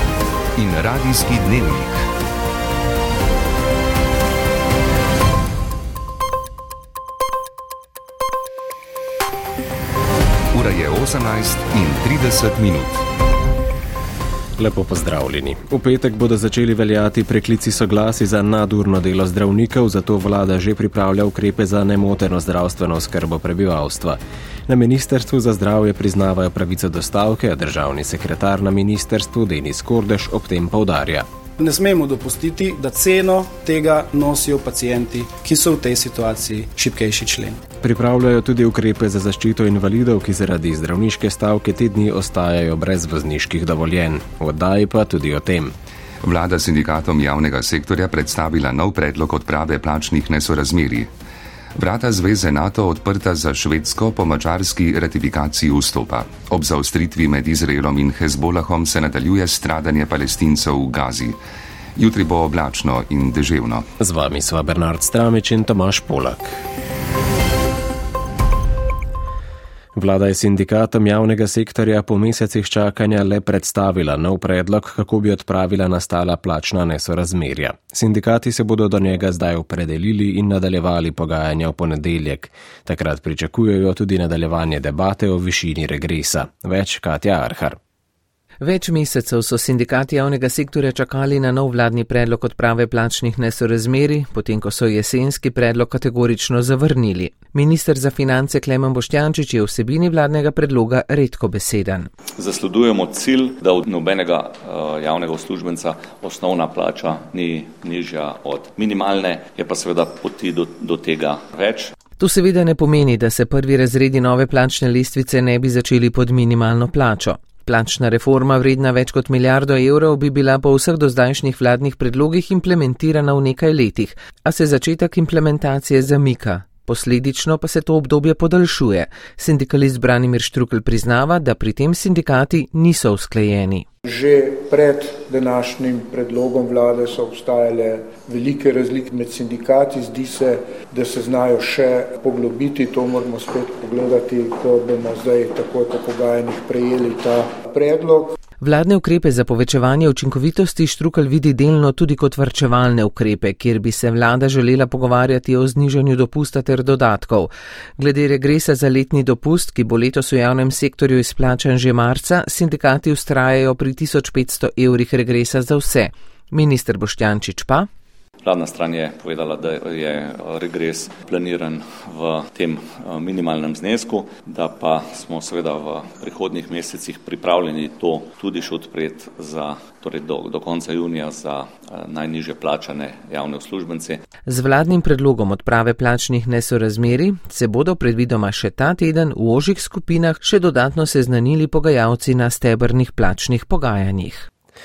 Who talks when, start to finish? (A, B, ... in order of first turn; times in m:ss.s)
0:00.6-0:01.9 A
0:10.6-0:13.0 A
0:14.6-0:31.3 B
0:31.6-0:37.6 C
0:37.8-0:45.7 B
0:46.2-0:51.1 A
0:51.8-1:01.3 A
1:02.0-1:03.9 A
1:04.0-1:06.6 B
1:10.0-1:27.8 B
1:28.6-1:42.1 D
1:42.4-1:51.9 E
1:52.2-2:13.8 D
2:14.1-2:28.3 F
2:28.6-2:47.9 D
2:48.4-3:04.2 E
3:04.4-3:14.4 D